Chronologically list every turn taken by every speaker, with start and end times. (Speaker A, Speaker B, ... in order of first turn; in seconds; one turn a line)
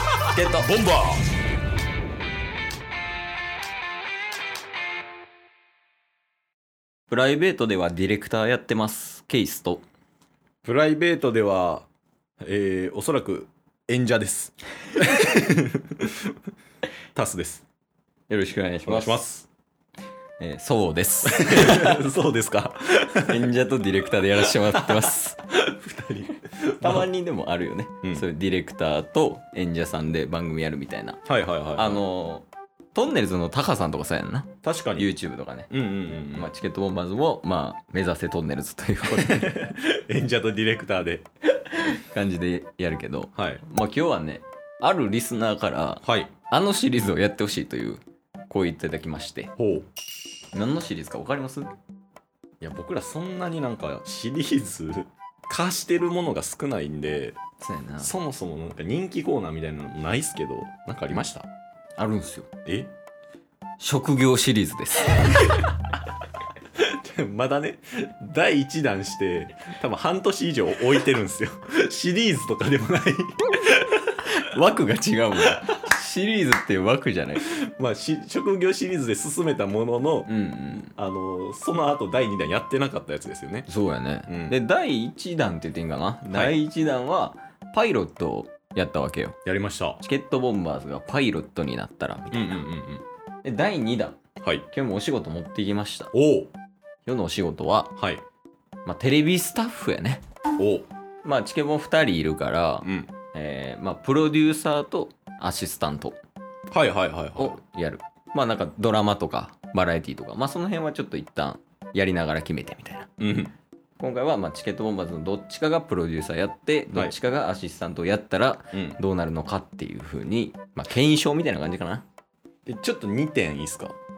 Speaker A: 0.3-0.7
Speaker B: 0.6-1.2
Speaker A: 7.1-9.8
Speaker B: 10.7-11.9
Speaker B: 12.4-16.1
Speaker B: 17.1-17.6
Speaker A: 18.3-19.2
Speaker B: 18.9-19.5
Speaker A: 20.4-22.0
Speaker B: 21.3-23.4
Speaker A: 23.3-25.4
Speaker B: 24.6-27.1
Speaker A: 26.8-31.2
Speaker B: 31.3-32.0
Speaker A: 31.8-39.7
Speaker B: 34.6-35.1
Speaker B: 35.7-36.5
Speaker B: 39.2-41.2
Speaker A: 41.6-49.5
Speaker B: 43.4-43.6
Speaker B: 46.0-46.3
Speaker B: 49.6-49.9
Speaker A: 50.5-51.7
Speaker B: 52.6-57.4
Speaker A: 57.6-58.1
Speaker B: 58.0-61.5
Speaker A: 62.0-62.5
Speaker A: 63.8-65.5
Speaker B: 66.8-74.0
Speaker A: 74.2-77.5
Speaker B: 77.5-83.7
Speaker A: 80.3-80.9
Speaker A: 83.7-89.4
Speaker B: 84.3-84.6
Speaker B: 86.3-86.6
Speaker B: 89.5-90.0
Speaker A: 90.0-92.6
Speaker B: 92.3-93.0
Speaker A: 93.4-94.2
Speaker A: 94.7-96.1
Speaker B: 96.1-96.5
Speaker A: 97.1-97.9
Speaker B: 98.0-98.2
Speaker A: 98.8-100.2
Speaker B: 100.6-100.9
Speaker A: 101.2-106.2
Speaker B: 102.8-103.1
Speaker B: 106.7-107.6
Speaker A: 107.4-113.1
Speaker B: 113.2-113.5
Speaker A: 114.0-122.0
Speaker B: 118.7-119.0
Speaker B: 122.7-123.9